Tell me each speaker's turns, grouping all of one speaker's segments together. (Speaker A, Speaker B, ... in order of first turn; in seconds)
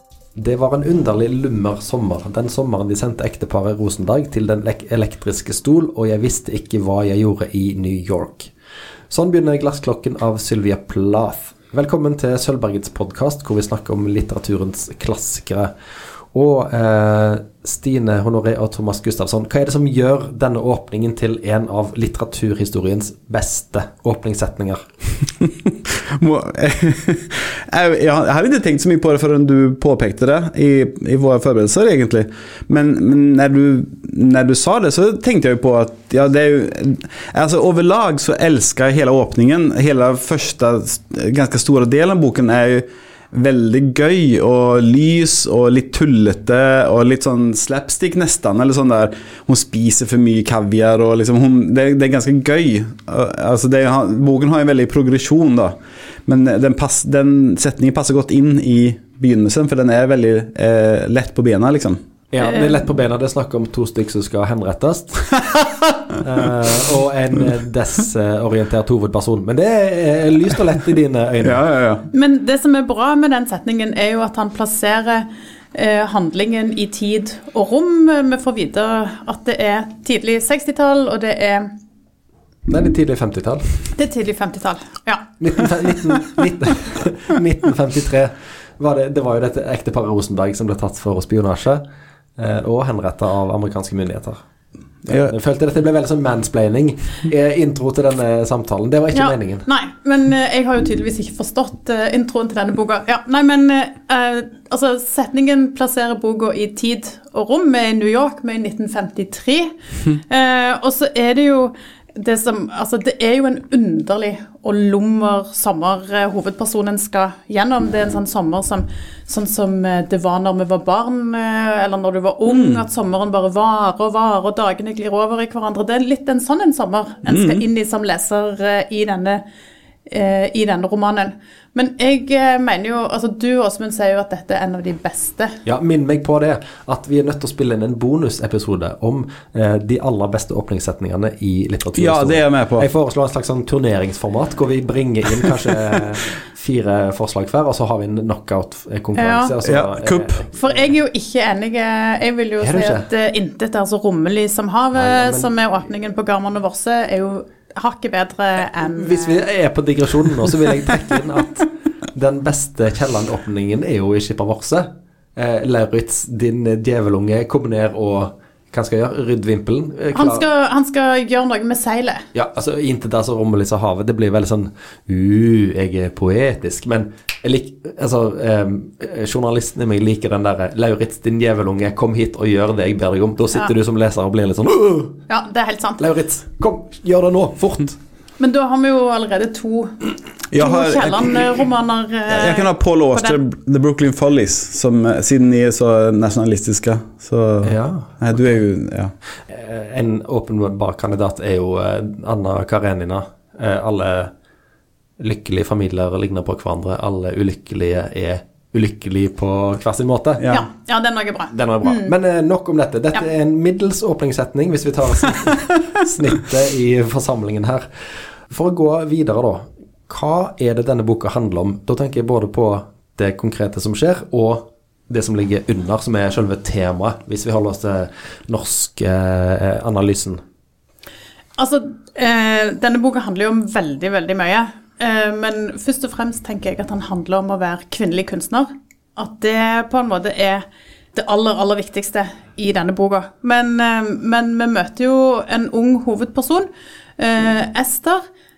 Speaker A: 0.4-8.5, 9.1-15.7, 16.3-24.8, 62.3-65.3, 66.2-71.6, 82.7-83.9, 85.4-91.8, 92.4-94.4, 95.1-99.7, 135.6-150.9, 152.6-153.1, 154.9-155.5, 158.8-170.4, 172.3-185.2, 186.0-188.0, 197.6-198.1, 199.5-204.3, 205.2-210.5, 211.5-217.9, 218.5-230.4
Speaker B: 25.5-55.8, 56.3-62.0, 71.4-72.1, 95.1-95.3, 122.5-122.8, 127.3-127.6, 141.9-142.9, 149.6-150.4, 190.5-191.7, 192.3-199.1, 210.4-210.7
Speaker C: 72.1-81.7, 84.0-85.7, 99.1-129.4, 130.1-135.6, 149.2-149.5, 150.6-159.4, 170.1-172.2, 185.3-186.1, 188.4-193.4, 210.5-212.1, 231.6-248.2